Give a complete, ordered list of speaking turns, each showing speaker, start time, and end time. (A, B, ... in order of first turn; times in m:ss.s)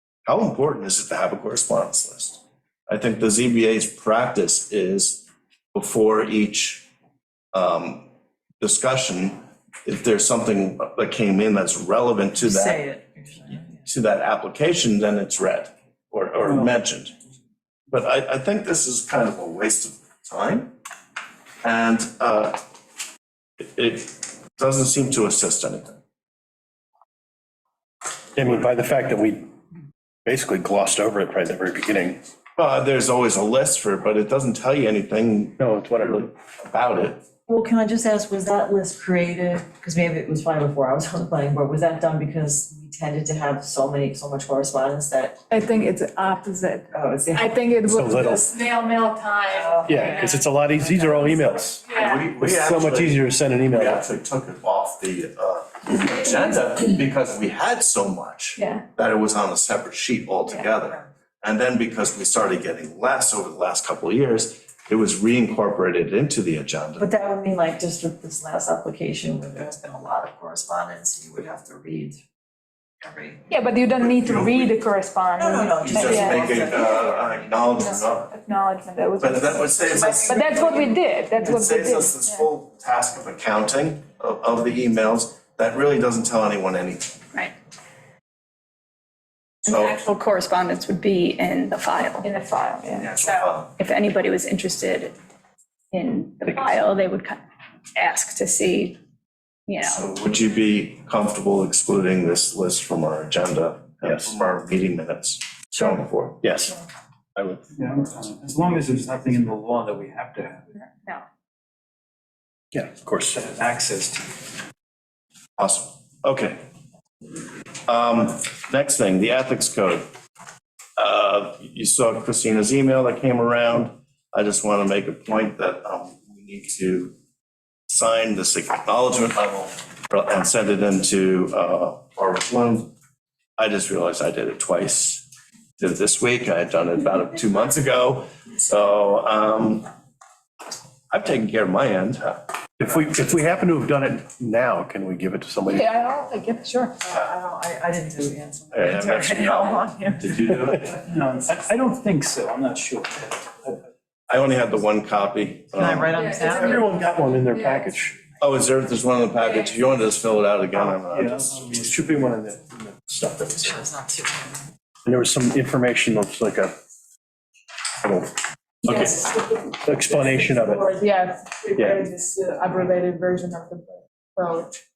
0:00.2-0:06.9 A
0:07.5-0:08.1 A
0:08.6-0:12.8 A
0:12.4-0:13.8 B
0:13.8-0:17.1 A
0:17.9-0:20.7 A
0:21.6-0:22.6 A
0:23.6-0:26.0 A
0:28.4-0:29.5 C
0:30.2-0:32.2 C
0:32.6-0:37.2 A
0:35.6-0:36.2 C
0:37.5-0:45.4 B
0:45.5-0:49.9 D
0:46.9-0:47.6 B
0:47.8-0:48.5 C
0:49.4-0:50.4 B
0:49.9-0:51.8 C
0:51.9-1:07.1 A
0:51.9-0:52.2 D
0:52.4-0:54.0 C
0:58.6-0:58.8 E
1:07.0-1:12.2 B
1:13.0-1:13.4 B
1:13.5-1:22.4 D
1:14.1-1:14.8 A
1:15.4-1:17.4 B
1:15.8-1:18.3 A
1:19.2-1:27.2 A
1:20.3-1:20.7 B
1:29.6-1:32.3 E
1:29.7-1:30.0 A
1:32.2-1:33.1 D
1:32.9-1:33.7 A
1:33.2-1:35.2 E
1:35.9-1:37.4 E
1:38.0-1:39.0 E
1:39.7-1:40.1 E
1:39.8-1:46.8 A
1:47.4-1:48.1 A
1:47.8-1:50.9 F
1:52.7-1:53.4 C
1:53.3-1:54.5 F
1:55.6-1:56.6 A
1:57.9-2:00.1 A
2:01.0-2:07.1 A
2:07.9-2:12.9 A
2:13.6-2:15.2 A
2:15.8-2:19.9 A
2:21.1-2:22.4 A
2:22.8-2:25.9 C
2:25.7-2:27.0 D
2:27.0-2:30.5 B
2:28.7-2:31.0 A
2:30.9-2:33.8 F
2:34.3-2:36.1 A
2:35.8-2:36.9 B
2:36.2-2:38.1 D
2:36.6-2:38.1 C
2:38.4-2:41.7 A
2:41.1-2:41.9 F
2:41.6-2:43.8 C
2:43.6-2:44.6 B
2:45.0-2:46.8 C
2:48.0-2:50.9 C
2:48.9-2:49.4 D
2:50.1-2:54.8 D
2:51.8-2:52.0 C